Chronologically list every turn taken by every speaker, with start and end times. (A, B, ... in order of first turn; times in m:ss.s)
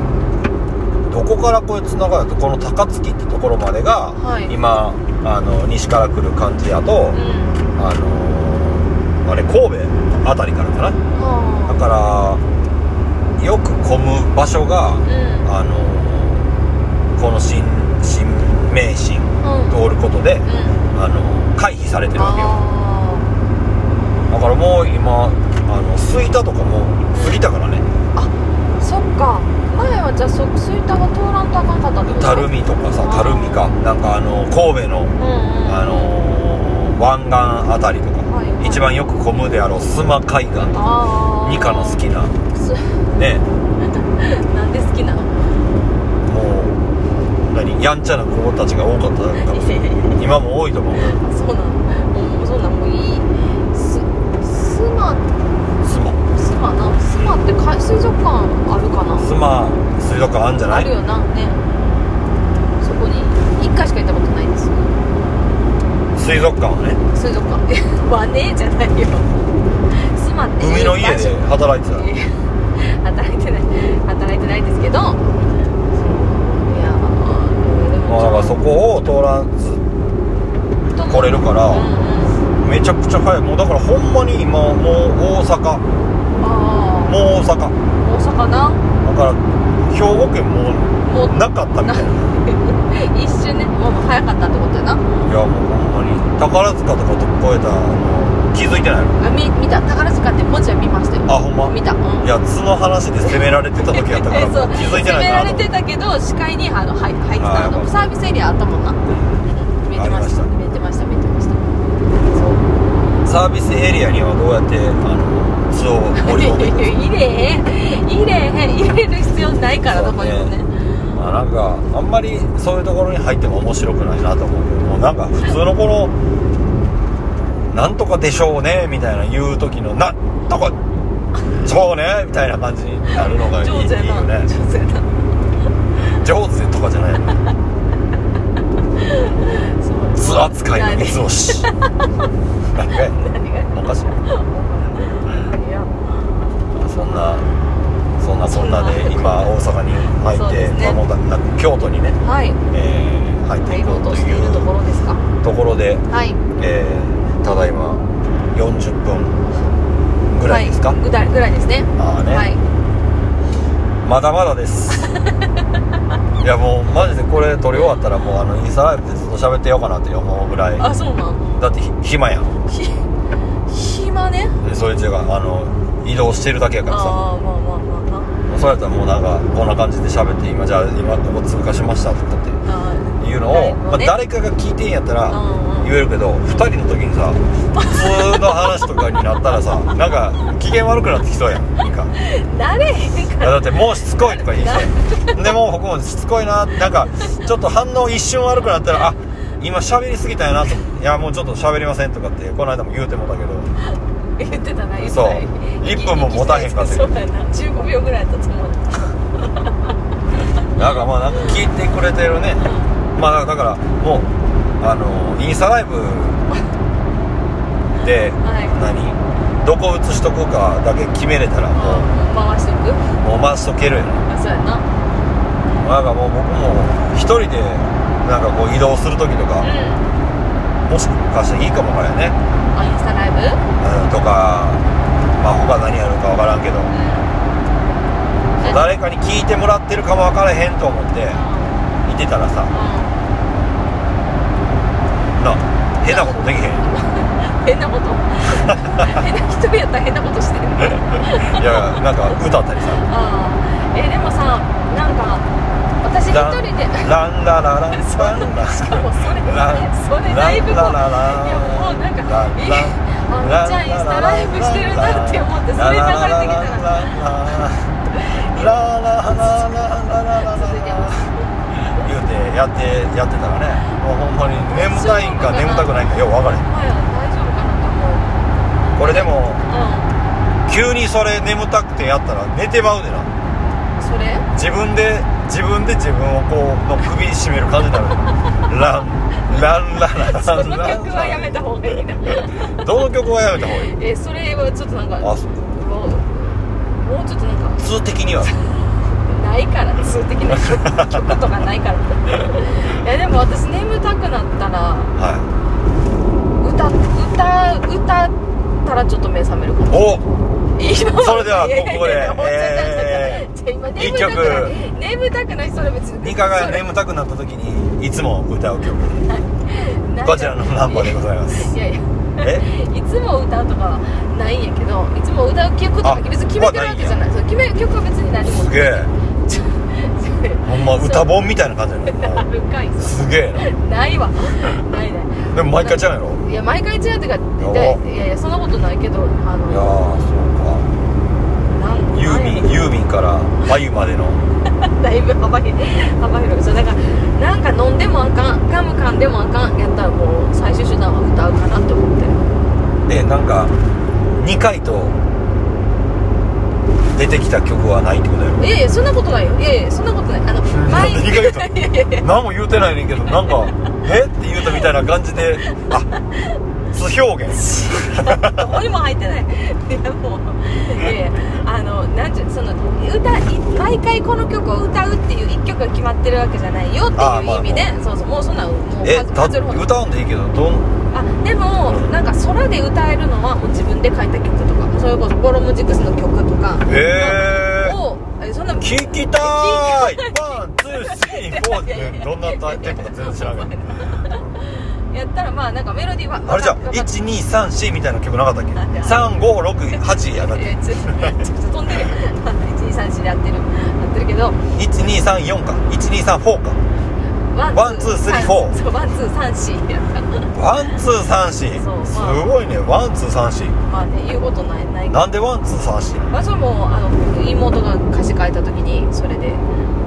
0:01.1-0:07.2 A
0:04.2-0:04.5 B
0:07.1-0:07.7 B
0:07.8-0:11.0 A
0:11.1-0:11.8 B
0:11.7-0:12.4 A
0:13.4-0:16.5 A
0:15.0-0:15.5 B
0:17.2-0:22.6 A
0:19.4-0:19.8 B
0:20.4-0:20.8 B
0:22.2-0:23.3 B
0:24.3-0:27.9 A
0:27.1-0:27.4 B
0:28.1-0:33.7 B
0:32.1-0:42.4 A
0:35.2-0:36.1 B
0:38.2-0:38.9 B
0:40.7-0:42.0 B
0:42.5-0:43.1 B
0:43.1-0:43.4 A
0:43.8-0:45.6 B
0:46.2-0:46.8 A
0:47.4-0:51.2 A
0:49.4-0:50.2 B
0:51.0-0:55.3 B
0:55.8-0:56.2 A
0:56.4-0:59.3 B
0:59.2-1:00.9 A
1:00.7-1:01.6 B
1:02.8-1:05.0 B
1:06.2-1:07.0 A
1:07.1-1:09.4 B
1:09.9-1:18.6 B
1:10.6-1:12.1 A
1:18.0-1:19.8 A
1:20.9-1:22.4 B
1:21.0-1:25.8 A
1:26.4-1:27.2 B
1:27.1-1:27.8 A
1:28.0-1:28.8 B
1:29.0-1:32.3 A
1:31.0-1:35.3 B
1:35.2-1:39.2 A
1:39.2-1:42.3 B
1:41.3-1:45.7 A
1:43.3-1:51.7 B
1:47.4-1:48.1 A
1:49.1-1:49.4 A
1:49.9-1:50.5 A
1:52.3-1:52.6 A
1:53.2-1:57.0 A
1:56.2-2:00.7 B
1:59.9-2:00.5 A
2:01.2-2:06.1 A
2:07.7-2:10.8 A
2:11.6-2:14.5 A
2:13.1-2:15.2 B
2:16.0-2:17.4 A
2:19.0-2:22.0 B
2:20.2-2:21.7 A
2:22.7-2:23.2 A
2:22.9-2:26.3 B
2:23.7-2:24.2 A
2:26.8-2:27.5 A
2:27.0-2:27.5 B
2:28.2-2:32.2 A
2:28.5-2:29.6 B
2:30.3-2:31.0 B
2:32.2-2:32.6 B
2:32.7-2:34.7 A
2:33.7-2:35.2 B
2:35.4-2:36.1 A
2:36.1-2:36.4 B
2:36.6-2:39.5 A
2:40.3-2:41.0 A
2:40.5-2:42.6 B
2:42.0-2:42.5 A
2:44.0-2:45.1 A
2:46.4-2:51.0 A
2:50.8-2:51.6 B
2:51.6-2:52.6 A
2:52.7-2:53.0 B
2:53.7-2:54.6 B
2:54.6-2:57.2 A
2:56.9-2:58.4 B
2:58.5-3:02.6 A
3:02.6-3:04.2 B
3:03.2-3:12.1 A
3:05.3-3:05.9 B
3:07.7-3:08.6 B
3:12.1-3:15.6 B
3:13.4-3:23.7 A
3:24.4-3:29.5 B
3:25.0-3:27.1 A
3:30.8-3:34.3 A
3:32.6-3:32.9 B
3:34.8-3:36.4 A
3:38.0-3:42.1 A
3:38.4-3:38.8 B
3:41.8-3:43.2 B
3:43.2-3:44.2 A
3:44.3-3:44.9 B
3:45.8-3:49.7 A
3:49.6-3:50.1 B
3:50.9-3:52.4 A
3:52.7-3:53.6 B
3:53.8-3:54.8 A
3:55.4-3:56.9 A
3:56.9-3:57.3 B
3:58.6-3:58.9 B
3:58.6-4:01.4 A
4:01.3-4:01.8 B
4:02.0-4:02.7 A
4:02.7-4:03.2 B
4:05.4-4:06.8 A
4:06.0-4:12.0 B
4:08.5-4:09.2 A
4:11.4-4:13.0 A
4:13.0-4:15.5 B
4:16.0-4:17.1 B
4:16.3-4:36.7 A
4:17.9-4:27.3 B
4:28.1-4:29.7 B
4:30.4-4:31.5 B
4:34.6-4:35.9 B
4:36.7-4:38.4 B
4:39.0-4:39.6 A
4:39.0-4:40.1 B
4:40.7-4:43.3 A
4:44.0-4:44.5 B
4:44.5-4:51.7 A
4:50.1-4:52.8 B
4:52.3-4:53.9 A
4:53.9-4:57.9 B
4:55.2-4:55.5 A
4:57.8-4:58.5 A
4:58.4-5:05.1 B
5:00.5-5:01.2 A
5:05.2-5:05.5 A
5:06.6-5:10.2 B
5:09.9-5:10.2 A
5:10.8-5:16.8 B
5:11.1-5:14.8 A
5:16.2-5:19.3 A
5:19.3-5:31.3 B
5:20.2-5:21.7 A
5:22.4-5:22.7 A
5:26.0-5:27.2 A
5:28.5-5:29.1 A
5:30.6-5:32.5 A
5:32.1-5:40.1 B
5:33.0-5:33.7 A
5:35.5-5:36.4 A
5:37.6-5:38.0 A
5:39.7-5:40.9 A
5:41.7-5:42.8 B
5:42.1-5:44.4 A
5:44.8-5:52.4 B
5:53.1-5:53.8 A
5:54.3-5:55.2 A
5:57.1-5:58.7 A
5:58.6-6:02.3 B
6:00.7-6:01.7 A
6:02.2-6:06.1 A
6:05.7-6:06.6 B
6:06.9-6:08.7 A
6:07.5-6:19.9 B
6:17.2-6:18.0 A
6:19.0-6:20.9 A
6:21.1-6:37.1 B
6:21.8-6:22.2 A
6:26.9-6:28.0 A
6:28.8-6:34.5 A
6:36.5-6:41.4 A
6:38.8-6:39.3 B
6:39.9-6:44.6 B
6:44.8-6:46.8 A
6:47.5-6:50.5 B
6:47.7-6:48.8 A
6:50.5-6:53.8 A
6:51.8-6:52.5 B
6:53.9-6:55.3 B
6:55.1-6:56.3 A
6:56.3-6:59.6 B